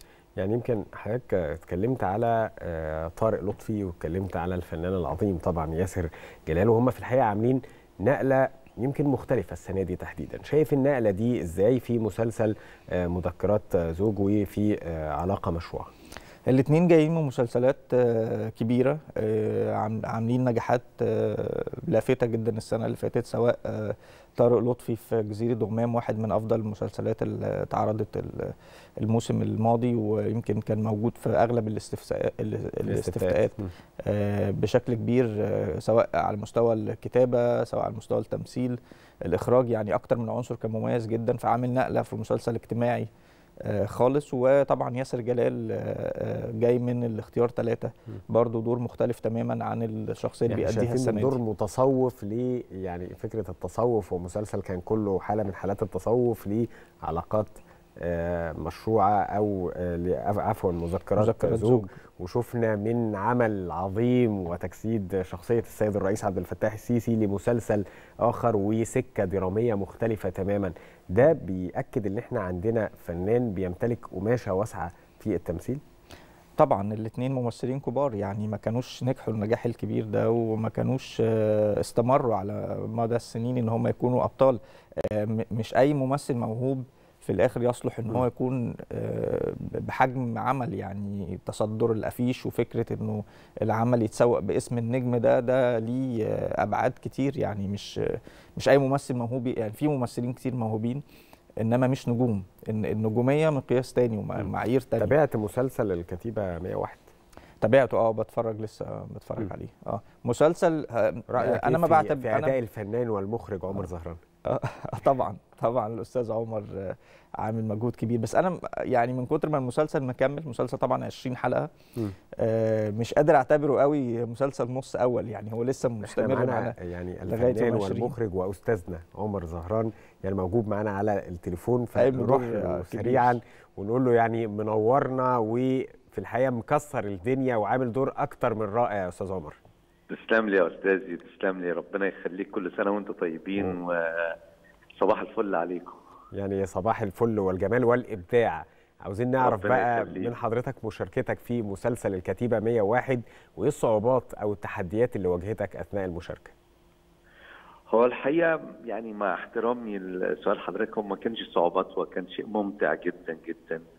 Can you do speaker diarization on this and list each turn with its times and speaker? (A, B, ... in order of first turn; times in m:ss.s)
0:00.4-0:15.9 A
0:16.5-0:43.1 B
0:32.9-0:33.7 A
0:43.6-0:51.4 B
0:50.5-1:15.8 A
1:01.2-1:01.9 B
1:16.6-1:41.0 B
1:41.6-1:45.1 B
1:44.4-1:47.1 A
1:47.6-1:52.5 B
1:51.3-1:54.2 A
1:54.4-2:01.7 B
2:02.4-2:06.8 B
2:06.0-2:19.6 A
2:07.3-2:08.2 B
2:12.0-2:13.4 B
2:20.1-2:24.4 C
2:25.0-2:26.0 C
2:26.3-2:36.5 A
2:29.4-2:30.3 C
2:37.9-2:43.8 C